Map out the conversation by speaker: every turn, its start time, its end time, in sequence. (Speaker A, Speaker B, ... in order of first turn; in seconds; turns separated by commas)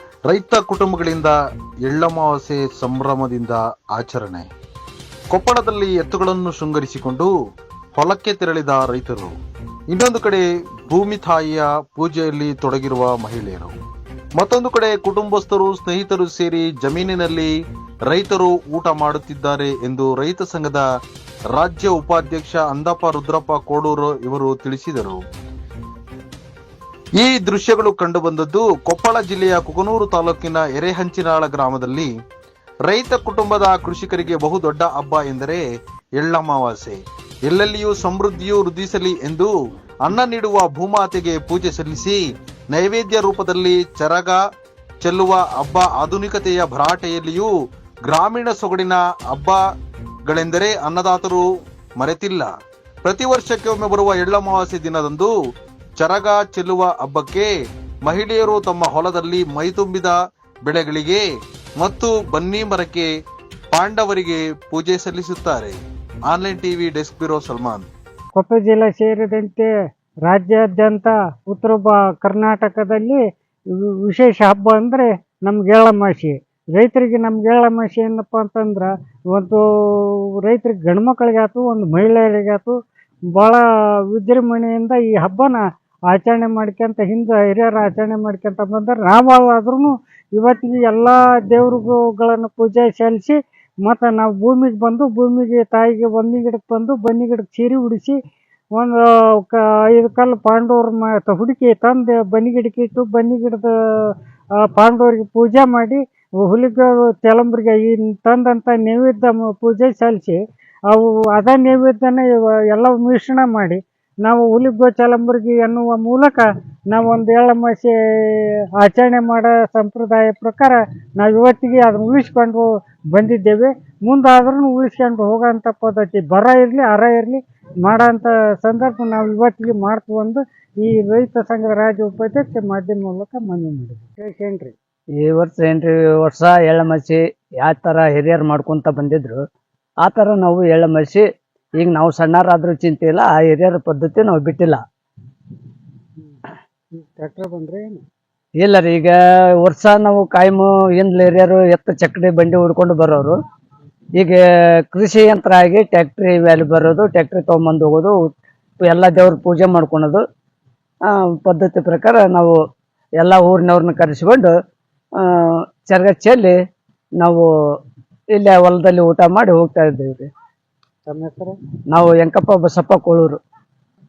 Speaker A: 0.3-4.5, Speaker A: 5.3-7.3, Speaker A: 8.0-9.3, Speaker A: 9.9-13.8, Speaker A: 14.4-17.5, Speaker A: 18.1-20.8, Speaker A: 21.5-25.2, Speaker A: 27.2-32.1, Speaker A: 32.9-35.6, Speaker A: 36.2-39.5, Speaker A: 40.0-42.2, Speaker A: 42.7-44.4, Speaker A: 45.0-47.5, Speaker A: 48.0-49.6, Speaker A: 50.3-51.4, Speaker A: 52.0-52.5, Speaker A: 53.0-55.3, Speaker A: 56.0-57.5, Speaker A: 58.0-61.2, Speaker A: 61.8-63.1, Speaker A: 63.7-65.8, Speaker A: 66.3-67.9, Speaker B: 68.3-69.7, Speaker B: 70.3-73.2, Speaker B: 73.8-82.8, Speaker B: 83.3-98.1, Speaker B: 98.8-103.7, Speaker B: 104.8-110.4, Speaker B: 110.9-134.7, Speaker C: 135.2-139.4, Speaker C: 140.0-141.2, Speaker C: 141.8-144.8, Speaker B: 146.9-148.0, Speaker C: 148.6-153.4, Speaker C: 154.2-158.3, Speaker C: 158.8-160.2, Speaker C: 161.1-162.6, Speaker C: 163.2-164.5, Speaker C: 165.2-166.6, Speaker C: 167.2-167.4, Speaker C: 168.3-170.3, Speaker B: 171.1-171.6, Speaker C: 171.9-173.4